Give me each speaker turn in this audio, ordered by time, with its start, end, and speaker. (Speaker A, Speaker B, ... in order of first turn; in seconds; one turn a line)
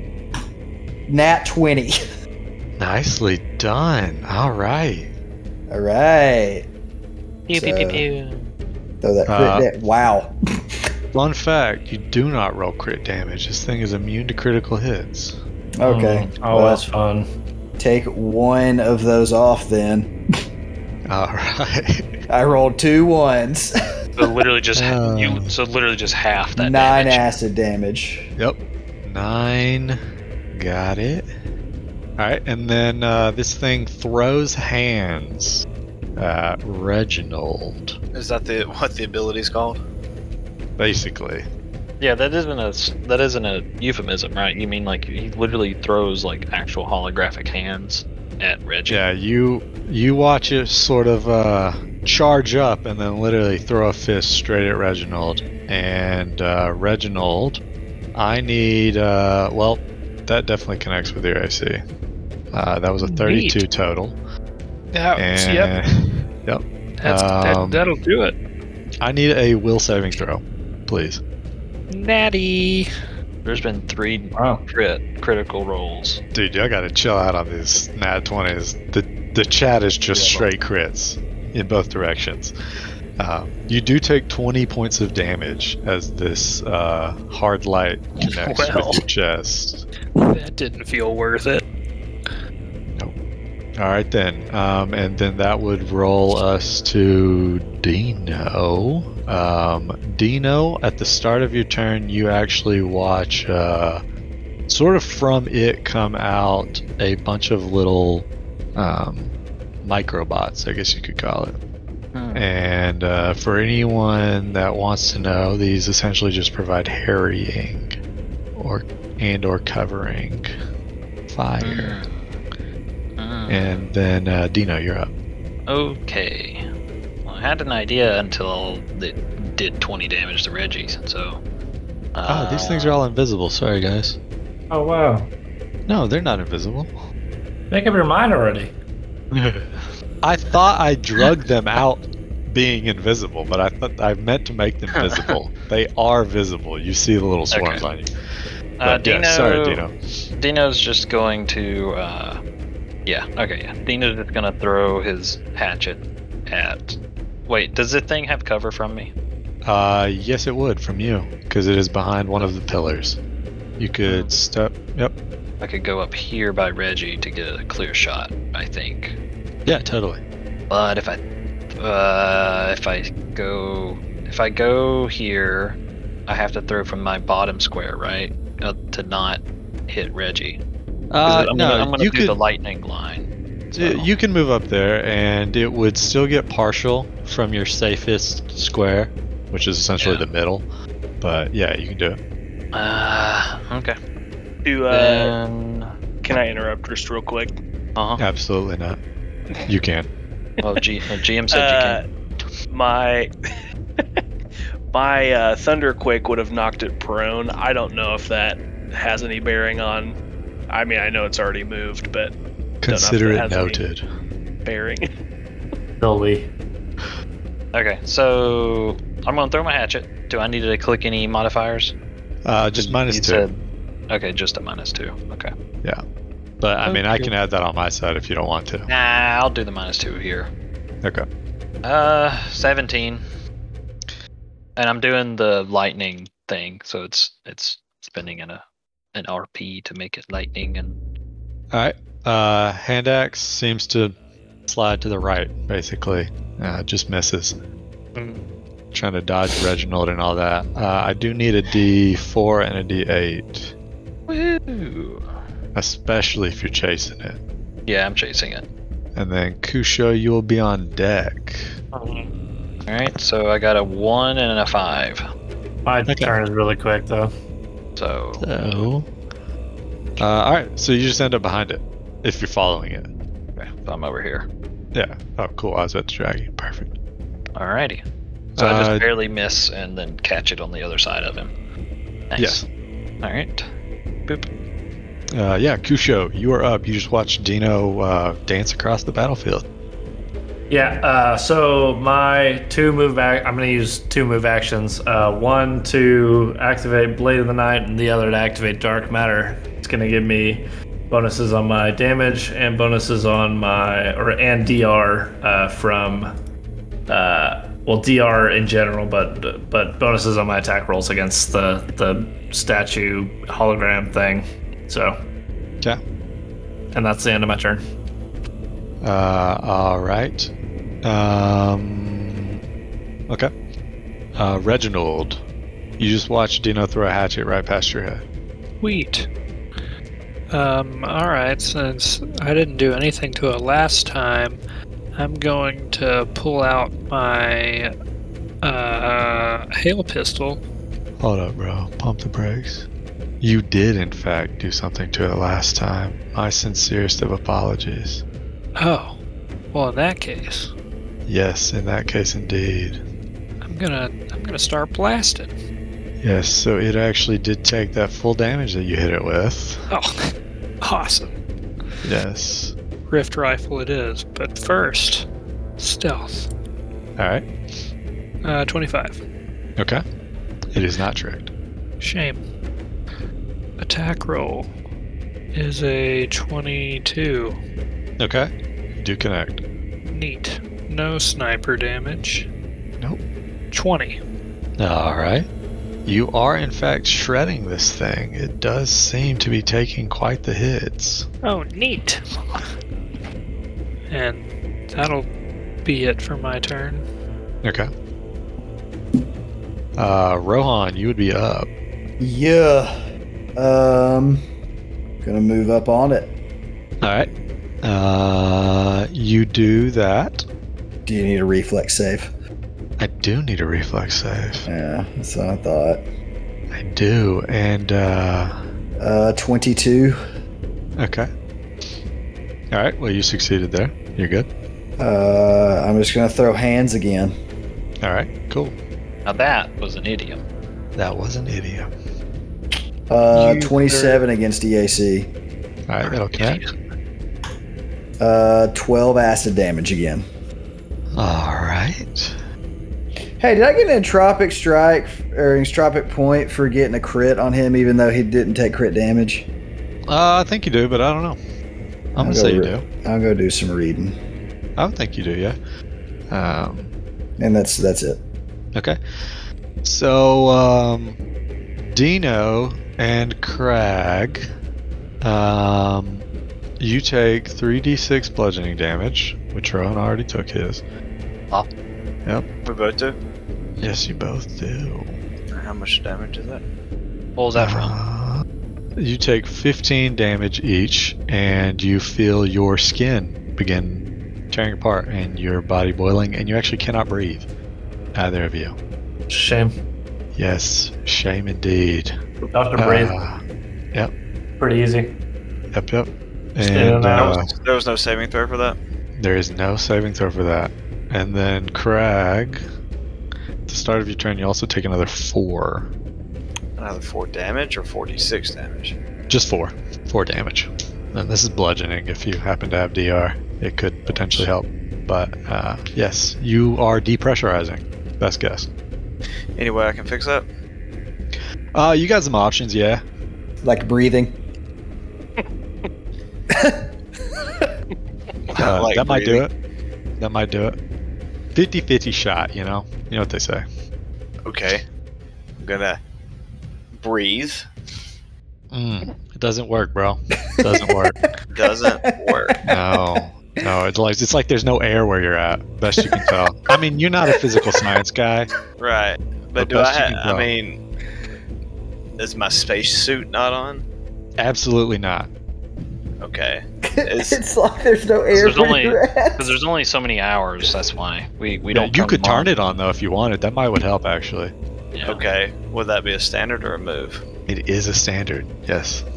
Speaker A: 1.1-2.0
Speaker B: 2.8-5.1
Speaker A: 5.7-6.7
Speaker C: 7.5-8.5
Speaker A: 7.5-8.1
Speaker A: 9.0-10.4
Speaker B: 9.3-9.7
Speaker B: 11.1-15.4
Speaker A: 15.8-16.9
Speaker D: 15.8-17.3
Speaker A: 17.8-20.1
Speaker B: 21.1-22.1
Speaker A: 22.3-23.7
Speaker C: 24.2-27.3
Speaker B: 24.8-25.5
Speaker A: 26.6-28.3
Speaker B: 28.4-30.0
Speaker B: 30.5-31.3
Speaker B: 32.2-35.6
Speaker B: 36.2-38.0
Speaker E: 38.1-39.8
Speaker B: 40.8-41.5
Speaker C: 42.0-49.0
Speaker B: 48.9-57.6
Speaker B: 58.1-61.8
Speaker B: 62.5-64.2
Speaker F: 63.0-63.6
Speaker F: 64.9-65.8
Speaker B: 65.2-67.9
Speaker F: 67.0-68.4
Speaker B: 69.0-71.2
Speaker F: 71.9-72.9
Speaker C: 73.5-76.2
Speaker B: 76.3-82.5
Speaker C: 80.1-80.5
Speaker B: 83.2-89.8
Speaker F: 88.2-89.0
Speaker F: 90.2-91.7
Speaker B: 93.8-104.0
Speaker B: 104.7-111.6
Speaker C: 112.1-112.4
Speaker B: 112.3-118.0
Speaker B: 118.6-120.5
Speaker B: 121.3-122.0
Speaker C: 121.6-122.3
Speaker C: 123.2-123.8
Speaker B: 123.5-125.1
Speaker C: 125.7-126.7
Speaker C: 127.2-131.4
Speaker C: 132.2-133.0
Speaker B: 132.3-134.2
Speaker D: 134.7-135.3
Speaker B: 135.9-137.0
Speaker D: 137.7-138.7
Speaker C: 139.3-139.7
Speaker B: 140.2-148.1
Speaker C: 144.9-145.3
Speaker C: 147.5-147.8
Speaker C: 148.8-149.9
Speaker B: 148.8-149.9
Speaker C: 150.4-152.4
Speaker C: 153.1-159.1
Speaker B: 159.6-163.2
Speaker B: 163.8-165.1
Speaker C: 165.6-169.2
Speaker B: 169.7-170.2
Speaker C: 170.7-171.2
Speaker C: 171.8-180.6
Speaker B: 181.1-182.4
Speaker C: 181.2-184.1
Speaker B: 183.7-190.7
Speaker C: 190.0-190.3
Speaker B: 191.2-192.2
Speaker C: 192.7-194.0
Speaker G: 194.7-195.3
Speaker C: 194.9-195.9
Speaker G: 196.2-197.5
Speaker C: 198.0-198.2
Speaker B: 198.2-199.0
Speaker B: 199.7-200.1
Speaker C: 200.6-202.0
Speaker G: 201.5-202.0
Speaker G: 202.7-203.3
Speaker G: 204.9-210.2
Speaker G: 210.7-212.3
Speaker B: 212.8-214.0
Speaker G: 212.9-213.8
Speaker G: 214.7-215.1
Speaker D: 216.0-216.5
Speaker C: 217.7-221.9
Speaker B: 222.4-223.5
Speaker C: 222.8-223.6
Speaker C: 224.1-225.5
Speaker B: 226.6-228.9
Speaker C: 226.9-227.3
Speaker C: 228.9-230.5
Speaker C: 231.8-233.2
Speaker C: 234.8-238.6
Speaker C: 239.2-241.0
Speaker B: 241.7-244.2
Speaker B: 244.7-247.6
Speaker C: 248.2-248.4
Speaker B: 248.9-253.7
Speaker C: 254.3-255.3
Speaker B: 255.8-257.4
Speaker C: 257.9-258.7
Speaker B: 259.1-261.7
Speaker D: 262.0-262.2
Speaker C: 262.9-265.2
Speaker D: 265.9-267.3
Speaker B: 266.1-266.4
Speaker C: 268.0-268.8
Speaker B: 268.4-269.1
Speaker B: 270.2-273.1
Speaker C: 273.6-274.5
Speaker B: 274.9-276.9
Speaker C: 277.6-278.0
Speaker B: 278.6-279.1
Speaker C: 278.6-281.5
Speaker C: 282.3-282.6
Speaker B: 282.4-282.6
Speaker C: 283.2-283.7
Speaker B: 285.3-289.6
Speaker D: 290.7-306.3
Speaker D: 307.1-315.2
Speaker D: 316.9-317.8
Speaker B: 319.0-320.5
Speaker B: 321.0-322.6
Speaker B: 324.4-325.4
Speaker B: 326.0-328.2
Speaker F: 328.8-329.3
Speaker F: 330.5-334.6
Speaker F: 335.2-337.9
Speaker F: 338.6-340.6
Speaker B: 341.2-342.9
Speaker B: 343.4-348.2
Speaker F: 348.8-349.2
Speaker F: 349.7-350.7
Speaker B: 351.3-353.0
Speaker F: 353.6-355.5
Speaker B: 356.2-359.8
Speaker F: 359.9-361.4
Speaker B: 362.0-362.7
Speaker F: 363.1-365.3
Speaker F: 365.8-366.5
Speaker B: 367.2-367.5
Speaker F: 368.4-369.2
Speaker B: 369.8-370.0
Speaker B: 370.7-371.5
Speaker F: 372.0-372.4
Speaker F: 373.8-374.7
Speaker F: 375.5-377.6
Speaker B: 378.2-379.6
Speaker F: 380.1-382.5
Speaker F: 383.7-384.2
Speaker B: 384.8-385.5
Speaker B: 386.1-391.3
Speaker F: 391.4-392.7
Speaker F: 394.1-395.3
Speaker F: 395.8-397.1
Speaker B: 397.6-397.9
Speaker B: 400.0-401.7
Speaker A: 402.2-403.0
Speaker A: 403.6-404.4
Speaker A: 405.2-406.4
Speaker B: 407.0-407.3
Speaker B: 407.8-410.4
Speaker A: 411.1-412.3
Speaker B: 413.0-414.7
Speaker A: 414.6-416.0
Speaker B: 416.7-418.6
Speaker A: 419.0-420.2
Speaker B: 421.0-421.3
Speaker B: 422.7-424.5
Speaker A: 425.0-427.4
Speaker B: 428.0-428.8
Speaker C: 429.3-430.4
Speaker B: 431.0-431.9
Speaker A: 433.1-435.3
Speaker B: 433.4-434.1
Speaker B: 435.9-436.6
Speaker C: 436.1-436.7
Speaker A: 438.2-440.3
Speaker B: 441.1-442.4
Speaker A: 443.4-449.5
Speaker B: 450.1-451.4
Speaker B: 452.1-452.8
Speaker A: 452.2-454.2
Speaker B: 454.8-455.6
Speaker B: 456.3-456.9
Speaker A: 457.4-458.2
Speaker B: 459.8-461.2
Speaker B: 461.9-464.5
Speaker B: 465.2-466.2
Speaker B: 466.8-470.8
Speaker E: 472.6-473.2
Speaker B: 473.8-475.2
Speaker E: 475.5-476.6
Speaker C: 477.4-478.0
Speaker B: 477.6-478.4
Speaker B: 479.0-487.5
Speaker B: 488.1-488.8
Speaker D: 489.3-489.7
Speaker B: 490.4-492.1
Speaker D: 492.5-493.1
Speaker B: 492.8-493.4
Speaker D: 494.6-495.2
Speaker B: 495.7-497.5
Speaker D: 496.6-497.4
Speaker E: 497.1-498.8
Speaker B: 499.2-502.6
Speaker B: 503.7-505.9
Speaker E: 506.8-509.0
Speaker B: 509.3-518.7
Speaker E: 514.1-514.5
Speaker E: 519.6-520.5
Speaker B: 521.8-523.0
Speaker A: 523.6-524.4
Speaker A: 526.5-526.9
Speaker E: 528.5-529.5
Speaker B: 528.6-529.5
Speaker B: 530.2-530.8
Speaker B: 531.5-533.6
Speaker E: 534.5-534.8
Speaker E: 535.6-536.0
Speaker E: 537.0-537.7
Speaker B: 538.7-541.1
Speaker A: 540.6-541.1
Speaker E: 541.5-542.6
Speaker A: 541.6-543.2
Speaker B: 542.6-548.5
Speaker A: 546.0-546.3
Speaker A: 547.3-547.9
Speaker E: 548.8-550.8
Speaker B: 549.6-550.5
Speaker E: 552.2-553.9
Speaker B: 554.4-555.3
Speaker E: 556.2-557.4
Speaker A: 556.9-559.6
Speaker C: 558.3-562.5
Speaker B: 561.7-564.5
Speaker C: 564.9-565.2
Speaker E: 565.1-567.2
Speaker B: 567.5-569.0